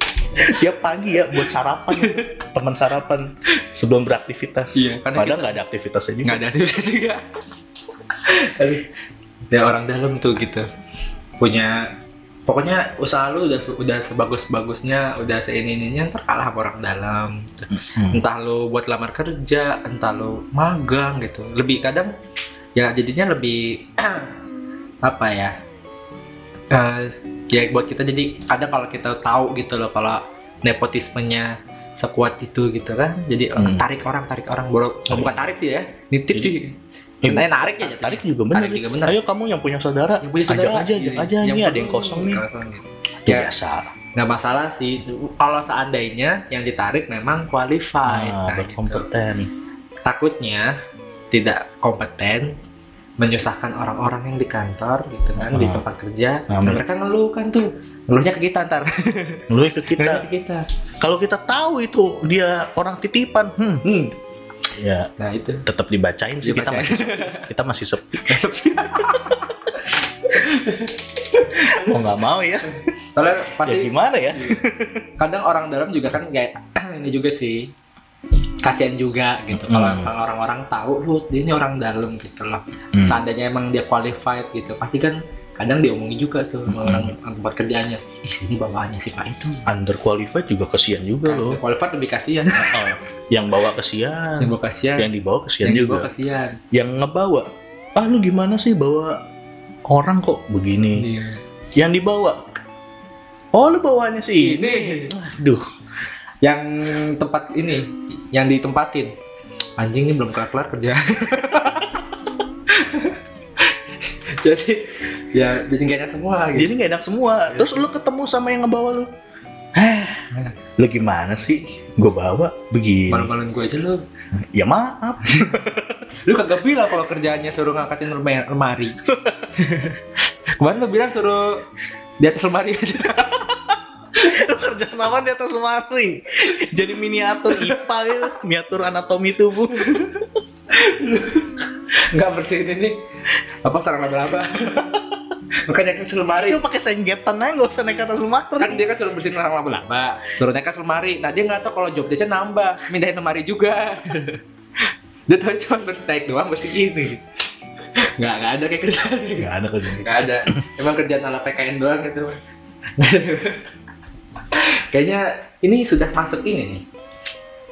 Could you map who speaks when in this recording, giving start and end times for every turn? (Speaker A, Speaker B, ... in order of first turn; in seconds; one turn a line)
Speaker A: 0.3-6.4
Speaker B: 1.9-2.3
Speaker B: 4.7-5.6
Speaker B: 6.2-7.2
Speaker B: 8.2-8.9
Speaker B: 9.5-10.7
Speaker B: 11.4-11.9
Speaker B: 12.5-22.1
Speaker A: 17.7-18.2
Speaker B: 22.8-24.3
Speaker B: 25.0-25.5
Speaker B: 26.7-39.2
Speaker A: 33.5-33.9
Speaker A: 37.2-42.4
Speaker B: 40.2-43.5
Speaker A: 43.2-43.9
Speaker B: 44.1-49.1
Speaker A: 48.0-49.5
Speaker B: 50.0-50.8
Speaker B: 51.3-52.5
Speaker B: 53.2-60.6
Speaker A: 55.4-55.8
Speaker A: 56.5-56.8
Speaker A: 59.5-60.2
Speaker A: 61.0-63.8
Speaker B: 63.8-64.1
Speaker A: 64.8-65.1
Speaker B: 65.2-65.7
Speaker A: 65.7-68.4
Speaker B: 66.4-67.5
Speaker B: 68.2-72.0
Speaker A: 71.7-72.8
Speaker B: 73.2-74.6
Speaker A: 73.6-75.0
Speaker B: 75.2-77.7
Speaker B: 78.6-89.7
Speaker A: 79.5-80.1
Speaker A: 82.9-83.2
Speaker A: 86.7-87.1
Speaker A: 89.7-91.6
Speaker B: 91.2-92.9
Speaker A: 92.5-96.1
Speaker B: 94.4-95.1
Speaker B: 95.6-96.6
Speaker A: 96.7-99.2
Speaker A: 99.9-101.1
Speaker B: 101.0-101.4
Speaker A: 101.7-102.4
Speaker A: 103.5-105.6
Speaker B: 104.4-105.1
Speaker B: 106.4-109.1
Speaker B: 109.8-112.0
Speaker B: 112.7-116.7
Speaker A: 116.5-119.1
Speaker B: 117.5-117.8
Speaker A: 119.7-123.3
Speaker B: 123.1-124.0
Speaker A: 124.3-126.0
Speaker B: 125.2-125.6
Speaker B: 126.2-129.0
Speaker A: 129.1-129.5
Speaker B: 129.6-130.0
Speaker B: 130.6-131.6
Speaker B: 132.2-133.4
Speaker A: 134.2-140.0
Speaker B: 137.5-137.8
Speaker B: 139.8-141.6
Speaker B: 142.1-143.0
Speaker B: 143.6-144.9
Speaker B: 145.7-146.6
Speaker A: 146.4-148.8
Speaker B: 148.6-154.4
Speaker B: 155.3-157.2
Speaker B: 158.2-162.4
Speaker A: 159.4-160.6
Speaker B: 163.0-163.6
Speaker B: 164.5-166.8